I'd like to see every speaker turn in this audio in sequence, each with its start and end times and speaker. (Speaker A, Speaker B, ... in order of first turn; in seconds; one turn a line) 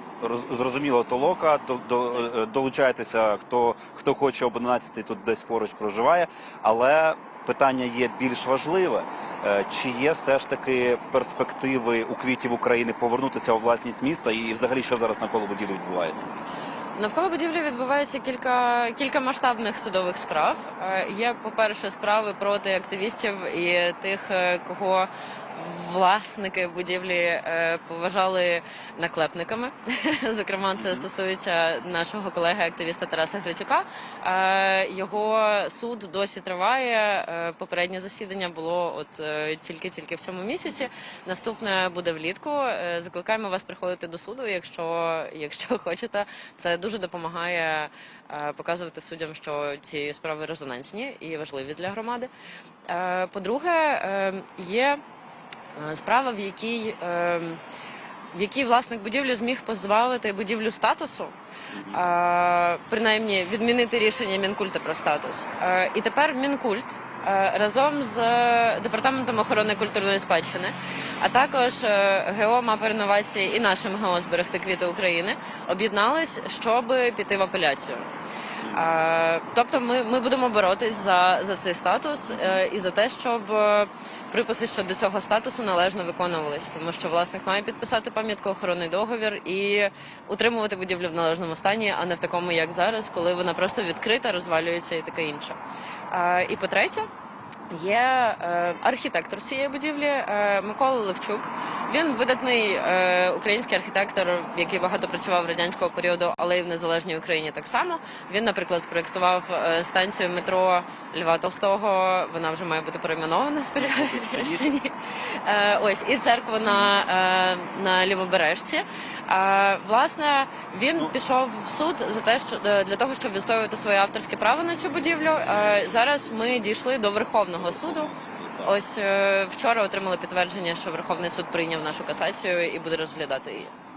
Speaker A: 0.2-16.3
Speaker B: 16.9-52.3
Speaker A: 30.8-31.1
Speaker B: 52.9-55.0
Speaker B: 55.8-57.6
Speaker B: 58.3-61.3
Speaker A: 61.7-62.0
Speaker B: 61.9-78.1
Speaker B: 78.7-95.6
Speaker A: 82.3-82.6
Speaker B: 96.1-97.1
Speaker B: 97.7-114.9
Speaker A: 113.8-114.7
Speaker B: 115.4-128.1
Speaker A: 116.6-116.9
Speaker A: 127.5-128.8
Speaker B: 128.6-133.7